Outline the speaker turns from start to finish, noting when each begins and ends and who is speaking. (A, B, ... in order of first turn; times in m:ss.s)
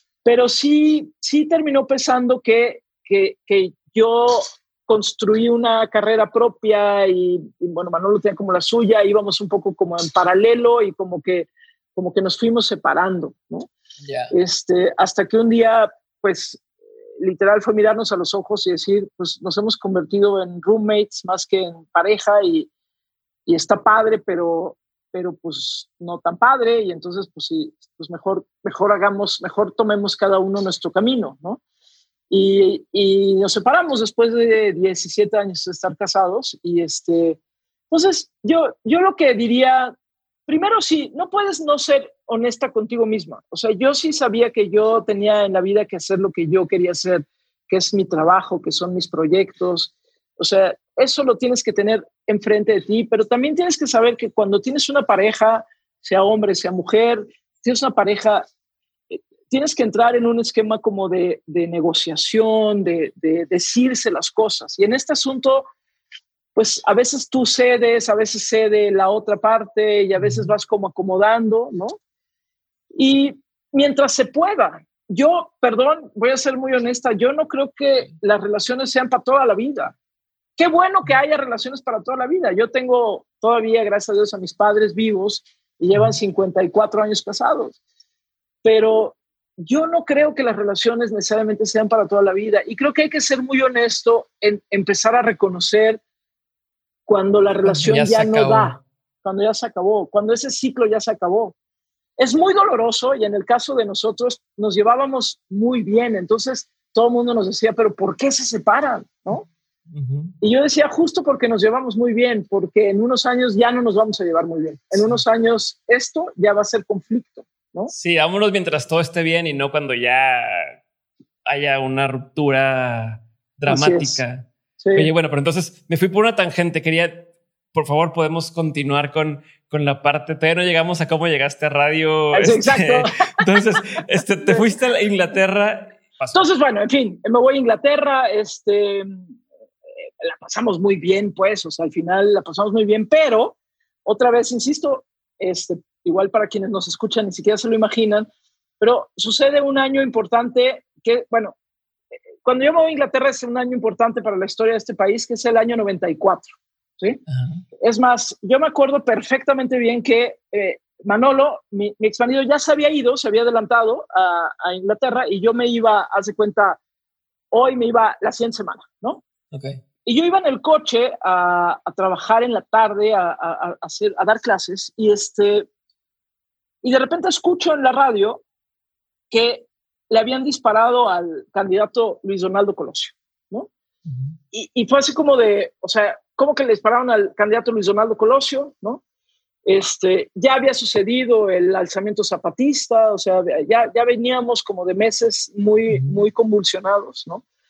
0:00.2-0:13.7 A
0:14.0-0:14.3 B
0:14.3-0:16.6 A
0:17.2-0:22.7 A
0:23.5-0:31.6 A
0:32.3-0:37.4 A
0:37.9-0:39.9 A
0:40.5-0:58.4 A
0:59.1-1:05.7 A
1:06.5-1:12.0 A
1:10.2-1:10.5 B
1:12.9-1:19.9 A
1:20.6-1:27.8 A
1:28.6-1:36.0 A
1:37.1-1:41.5 A
1:37.6-1:38.8 B
1:42.2-1:49.4 A
1:49.9-1:50.3 B
1:50.4-1:57.9 A
1:54.9-1:55.2 B
1:57.9-2:00.8 B
2:01.4-2:16.4 B
2:03.7-2:04.2 A
2:04.8-2:05.1 A
2:12.3-2:13.4 A
2:14.4-2:14.7 A
2:16.3-2:19.3 A
2:20.2-2:28.3 A
2:28.8-2:31.5 A
2:32.4-2:37.2 A
2:37.3-2:37.6 B
2:37.8-2:46.8 A
2:47.5-2:49.2 A
2:49.5-2:49.8 B
2:50.0-2:55.7 A
2:56.8-2:58.4 A
2:59.3-3:03.7 A
3:04.1-3:04.3 B
3:04.5-3:09.0 A
3:09.6-3:17.4 A
3:15.9-3:16.2 B